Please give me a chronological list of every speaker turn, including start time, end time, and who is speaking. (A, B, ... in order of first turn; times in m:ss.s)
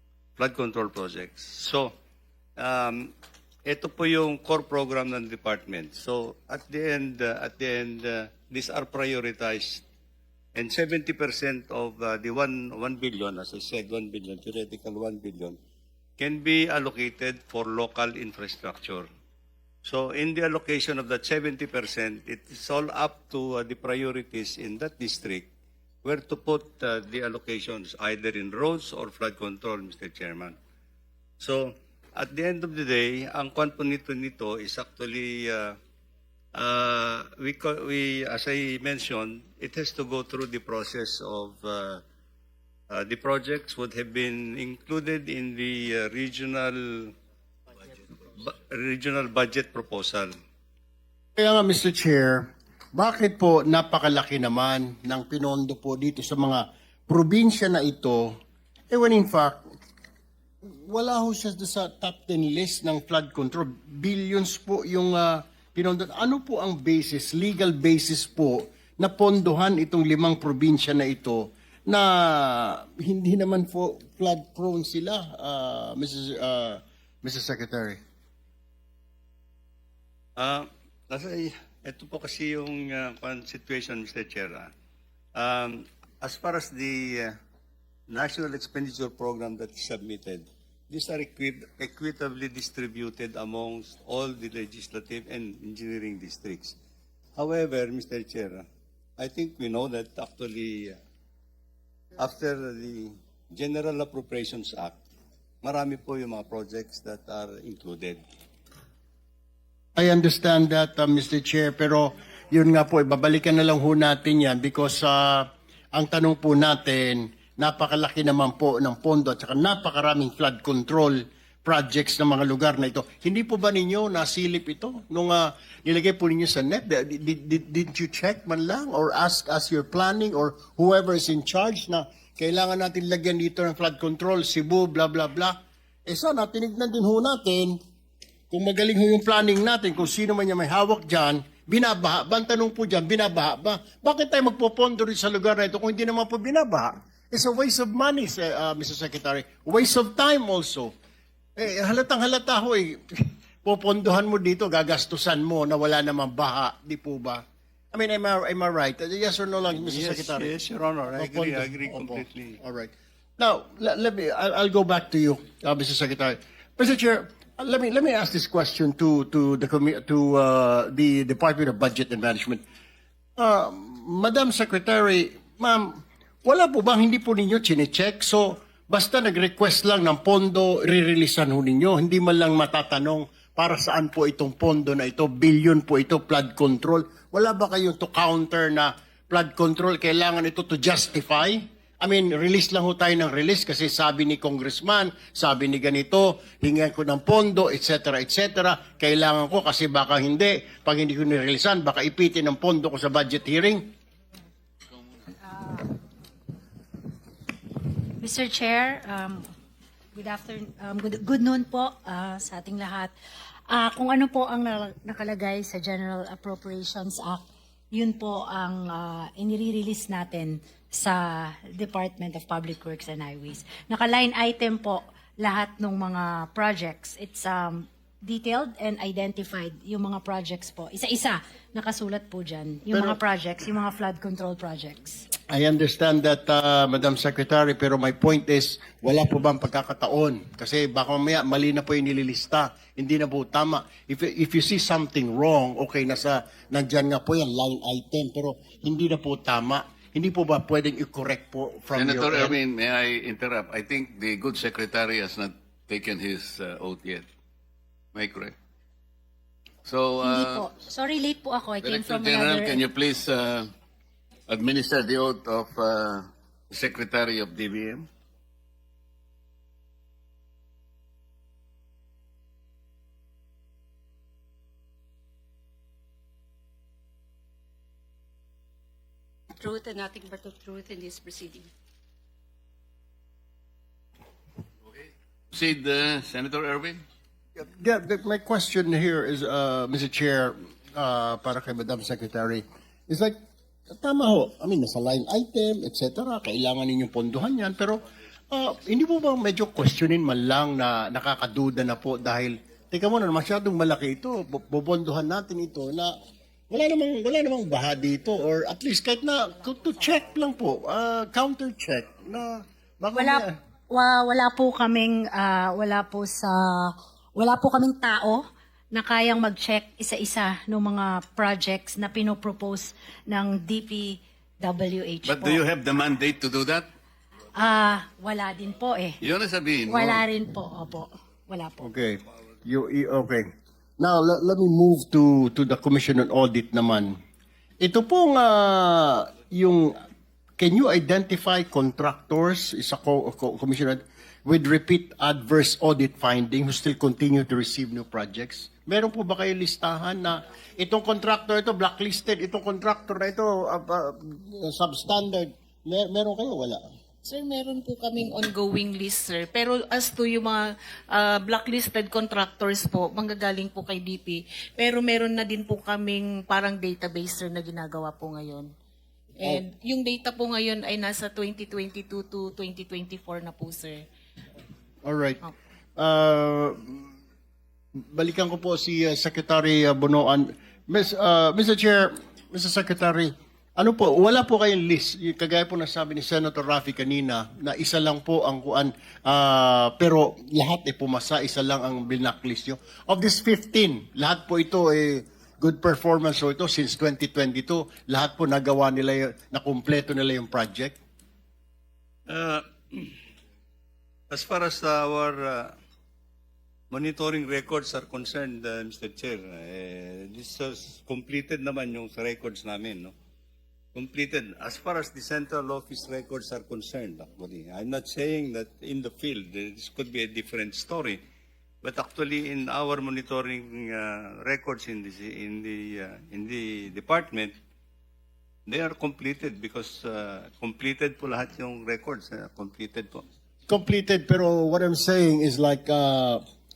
0:00.4-0:01.9 A
0:02.6-0:03.1 A
0:03.6-0:09.8 A
0:10.6-0:15.6 A
0:16.2-0:19.1 A
0:19.8-0:25.5 A
0:26.0-0:30.6 A
0:31.4-0:35.8 A
0:36.5-0:42.0 A
0:42.9-0:47.1 A
0:48.4-0:50.3 A
0:51.4-0:58.4 B
0:58.9-0:59.7 B
1:00.7-1:18.0 B
1:20.4-1:24.7 A
1:25.4-1:27.3 A
1:28.1-1:36.8 A
1:37.4-1:38.6 A
1:39.2-1:41.0 A
1:42.2-1:45.0 A
1:45.6-1:48.2 A
1:50.0-2:17.8 B
2:18.5-2:30.9 B
2:31.6-2:40.5 B
2:39.8-2:42.6 A
2:41.2-2:52.6 B
2:53.4-3:23.8 B
3:25.4-3:26.0 C
3:28.2-3:29.4 C
3:30.1-3:33.1 C
3:33.7-3:37.4 C
3:37.9-3:55.2 C
3:52.9-3:53.2 B
3:55.5-4:12.6 B
4:11.9-4:17.2 D
4:18.1-4:18.5 D
4:19.8-4:20.7 D
4:20.2-4:22.8 C
4:21.8-4:23.7 D
4:24.5-4:28.1 D
4:39.6-4:41.7 E
4:45.5-4:47.0 D
4:47.6-4:53.3 B
4:53.9-4:58.0 B
4:58.5-5:06.1 B
5:06.7-5:13.5 B
5:13.1-5:25.6 C
5:25.2-5:26.9 D
5:27.5-5:29.2 C
5:29.2-5:30.2 D
5:29.9-5:31.9 C
5:31.8-5:33.4 B
5:34.0-5:37.2 B
5:37.8-5:39.9 B
5:40.6-5:56.8 B
5:57.2-6:08.7 F
6:09.4-6:14.0 F
6:15.0-6:15.4 B
6:16.0-6:17.1 B
6:18.0-6:41.0 B
6:42.3-6:43.2 A
6:44.3-6:45.7 A
6:46.9-6:53.1 A
6:53.9-7:01.2 A
7:01.8-7:07.5 A
7:08.7-7:13.2 A
7:13.7-7:16.4 B